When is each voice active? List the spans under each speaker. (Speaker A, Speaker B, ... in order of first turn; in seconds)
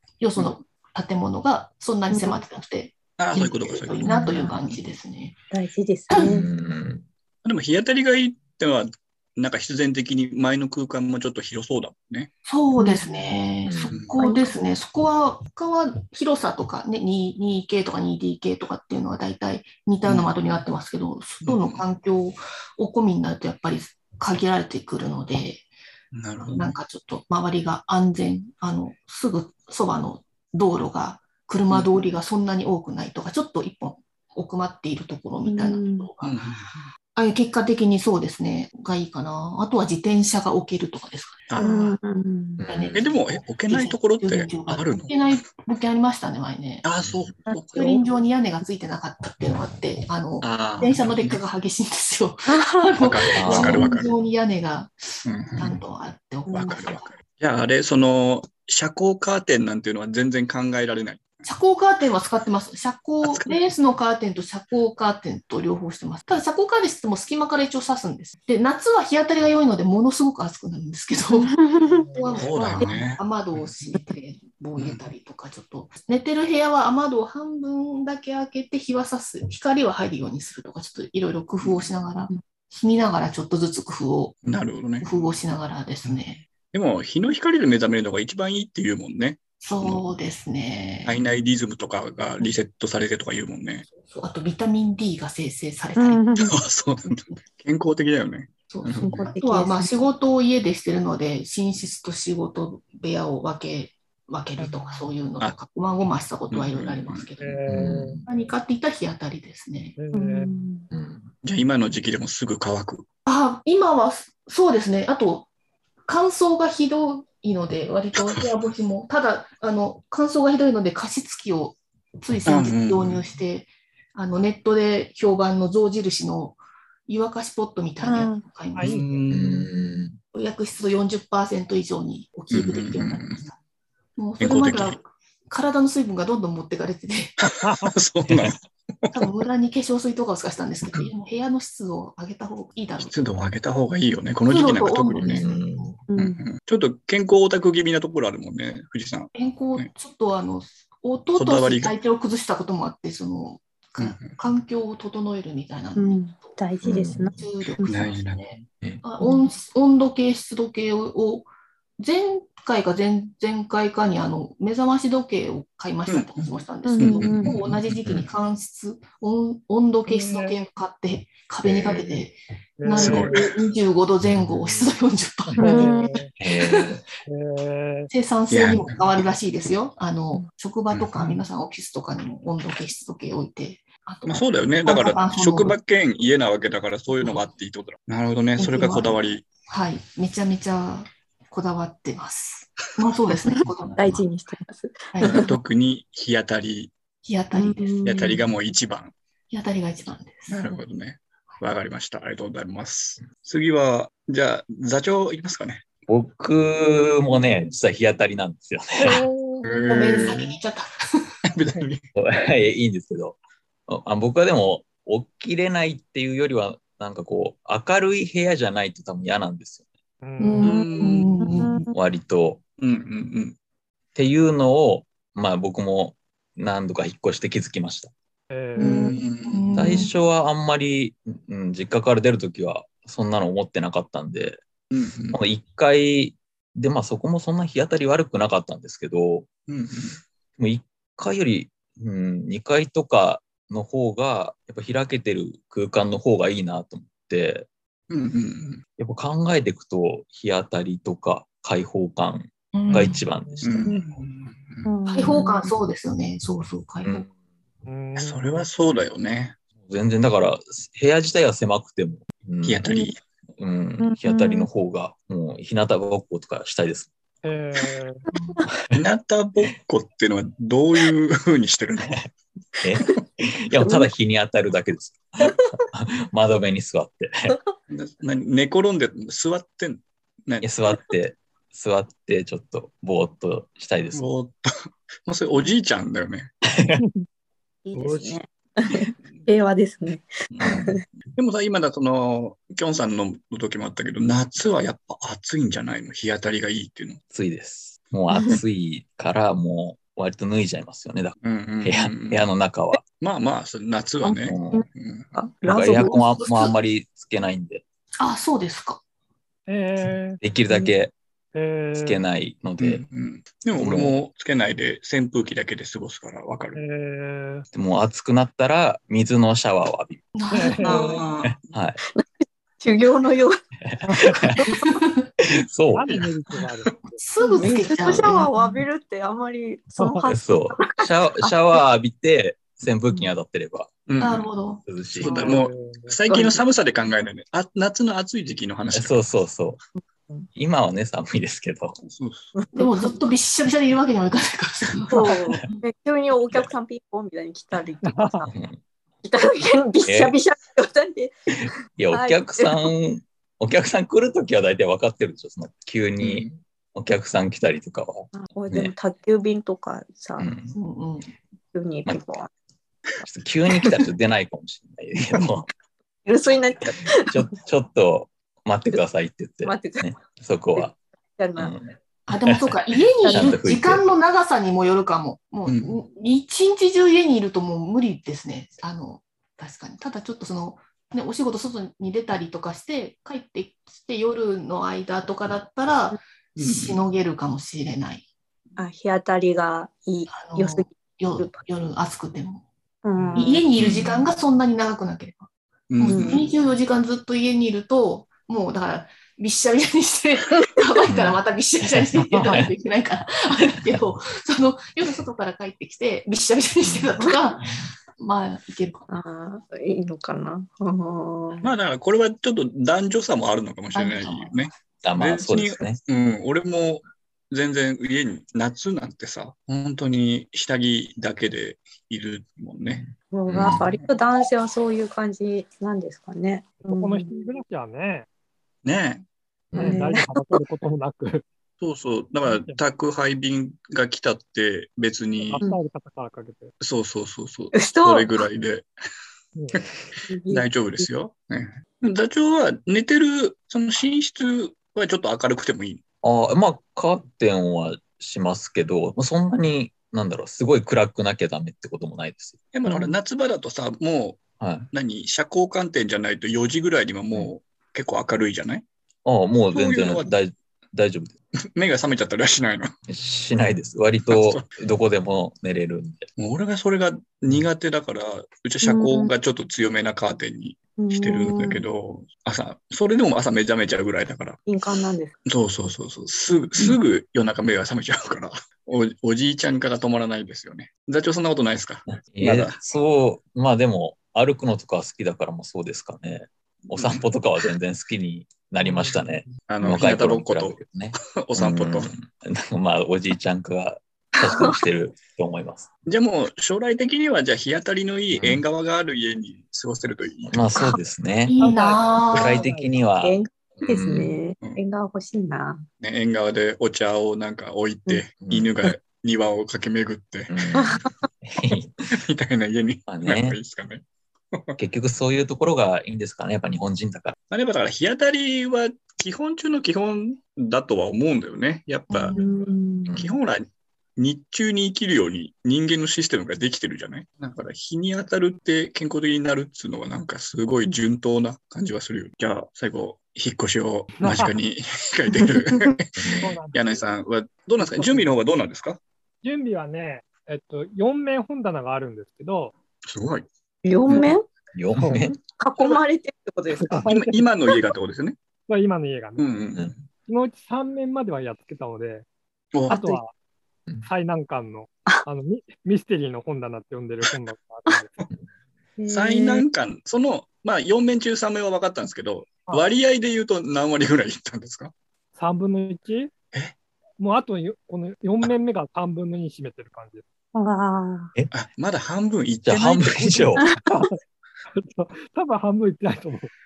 Speaker A: 0.2-5.3, 6.1-6.5, 12.4-25.6, 26.5-36.4, 37.1-42.0, 42.7-46.9, 47.7-57.1, 61.4-84.4, 85.0-86.5, 89.6-91.2, 93.9-96.5, 97.1-97.4, 98.7-107.6, 108.3-110.0, 113.2-115.5, 116.0-129.2, 130.3-133.6, 134.2-137.4, 139.1-143.4, 144.5-146.0, 149.3-156.6, 157.3-175.9, 176.5-177.0, 178.1-185.8, 188.6-194.2, 195.1-195.4, 197.2-198.4, 199.5-200.7, 209.9-211.3, 220.4-221.8, 228.8-230.1, 252.7-253.2, 255.1-257.3, 268.3-268.6, 305.7-306.7, 308.2-309.0, 320.3-321.2, 324.6-325.3, 327.2-328.5, 334.2-334.8, 342.7-345.8, 360.7-361.3, 372.3-388.2, 390.3-392.6, 393.4-395.5, 396.0-409.1, 413.9-414.7, 501.4-502.6, 522.1-522.5
Speaker B: 2.1-2.4, 4.1-4.5, 5.5-6.5, 12.8-13.1, 14.2-14.6, 35.5-36.1, 41.6-42.6, 47.5-48.0, 52.5-52.9, 56.5-56.8, 71.3-72.3, 96.0-96.5, 99.0-99.9, 110.1-110.9, 128.0-128.4, 146.1-146.4, 155.9-158.0, 166.8-167.6, 175.6-176.2, 194.0-195.5, 197.5-198.4, 220.7-221.9, 228.8-229.2, 254.8-255.7, 262.9-263.1, 264.0-264.7, 268.3-268.6, 273.8-274.1, 287.9-291.0, 298.3-298.6, 304.2-306.2, 322.1-323.6, 324.6-324.9, 327.4-331.8, 336.3-336.6, 342.6-343.1, 345.1-348.5, 349.2-352.9, 358.3-360.5, 361.7-362.5, 366.2-367.5, 369.6-370.1, 370.7-371.7, 373.2-373.6, 388.8-391.6, 393.0-393.6, 396.0-396.5, 409.1-411.7, 423.3-427.6, 429.8-430.6, 437.7-438.4, 440.2-441.1, 452.9-453.1, 468.8-469.3, 471.0-471.8, 474.6-475.3, 494.4-494.8, 503.2-505.8, 510.8-511.1, 522.1-523.1, 535.3-535.8, 543.8-544.4, 545.5-547.1, 552.9-553.2, 559.0-559.7, 570.5-571.3
Speaker C: 3.1-4.3, 7.4-12.3, 13.9-14.2, 21.4-21.8, 26.1-26.8, 31.7-32.1, 36.2-36.9, 42.9-45.2, 46.8-47.9, 50.4-51.4, 53.0-54.1, 55.2-55.8, 56.5-61.4, 63.2-63.5, 72.4-73.2, 74.8-75.0, 84.4-85.3, 86.6-90.0, 91.0-93.9, 96.4-99.3, 106.5-107.3, 111.4-113.0, 118.1-118.6, 122.5-123.2, 128.8-129.7, 132.5-133.4, 134.4-135.0, 137.4-139.3, 143.0-145.5, 146.2-149.9, 151.3-152.0, 154.0-154.4, 157.8-158.7, 166.1-168.0, 171.7-172.0, 172.9-173.4, 178.5-179.0, 180.9-181.4, 184.2-189.5, 195.2-196.9, 198.0-199.1, 200.5-205.9, 209.0-210.5, 211.4-212.1, 220.6-221.3, 222.8-223.6, 229.1-229.8, 234.9-235.4, 239.7-240.2, 248.1-248.8, 253.6-254.9, 258.1-259.6, 262.6-263.2, 268.9-272.2, 277.9-280.8, 284.1-284.7, 285.2-286.5, 288.9-289.4, 290.5-297.2, 301.4-302.5, 303.2-305.3, 312.8-316.8, 320.8-321.7, 334.1-334.5, 335.1-339.2, 342.0-342.5, 356.2-356.6, 375.7-375.9, 386.6-387.0, 395.9-396.5, 411.6-423.0, 423.6-424.1, 428.8-429.2, 431.8-435.6, 436.8-438.9, 440.5-446.0, 452.7-458.9, 459.7-460.3, 461.8-462.9, 464.3-464.7, 466.4-474.6, 475.4-482.8, 486.9-487.2, 489.7-492.1, 496.1-500.8, 506.0-510.6, 512.1-514.8, 517.5-522.4, 523.1-539.0, 543.1-543.5, 544.1-544.3, 547.0-548.4, 549.4-550.0, 552.7-553.0, 559.1-564.9, 571.5-573.7
Speaker D: 6.1-7.0, 13.6-13.9, 42.6-43.1, 47.0-47.3, 53.4-53.9, 107.7-108.2, 110.9-111.3, 129.3-130.2, 145.2-146.0, 156.8-157.3, 176.4-177.0, 206.1-209.2, 212.2-219.8, 221.9-222.6, 224.1-228.1, 229.7-234.6, 235.3-239.5, 240.6-247.7, 249.0-254.1, 259.8-262.9, 263.6-267.1, 272.8-277.6, 280.6-284.3, 297.3-303.0, 304.4-304.8, 305.6-307.8, 310.4-311.1, 311.9-313.0, 313.8-314.1, 317.7-320.2, 321.5-322.0, 323.9-324.6, 325.6-326.2, 330.2-334.0, 334.8-335.5, 338.9-339.8, 340.5-342.0, 348.5-348.8, 350.0-350.4, 351.6-358.9, 360.4-360.8, 363.2-365.7, 367.0-370.9, 371.6-372.7, 373.2-374.0, 393.8-394.2, 401.1-401.4, 406.8-407.2, 415.0-416.0, 422.9-423.8, 429.7-430.1, 446.2-452.6, 454.6-454.9, 459.2-461.4, 463.1-466.3, 482.2-495.9, 498.3-498.6, 500.5-501.6, 502.3-504.4, 508.4-508.7, 510.5-511.9, 513.1-513.6, 514.8-517.3, 523.0-523.3, 536.2-536.5, 544.7-545.4, 572.6-573.6
Speaker E: 71.8-72.4, 104.6-105.0, 107.4-108.2, 110.0-110.5, 128.8-129.1, 137.6-137.9, 170.1-170.6, 172.8-173.4, 175.5-176.3, 177.2-178.1, 209.0-209.8, 220.2-220.8, 228.5-229.0, 257.9-258.6, 267.4-268.2, 287.0-287.3, 309.7-310.4, 311.5-312.2, 316.8-317.6, 320.5-321.2, 324.1-324.4, 325.9-327.2, 335.2-336.1, 348.1-348.4, 393.2-393.4, 426.9-428.3, 429.8-431.4, 432.5-432.8, 435.4-436.7, 439.5-439.9, 488.8-489.2, 501.6-502.9, 534.2-534.5, 536.4-537.0, 537.8-538.3, 539.4-542.7, 545.0-545.2, 546.7-547.5, 548.7-549.4, 550.2-552.2, 552.9-553.3, 554.0-558.1, 565.3-566.3, 567.2-570.2, 573.9-574.1, 574.7-576.5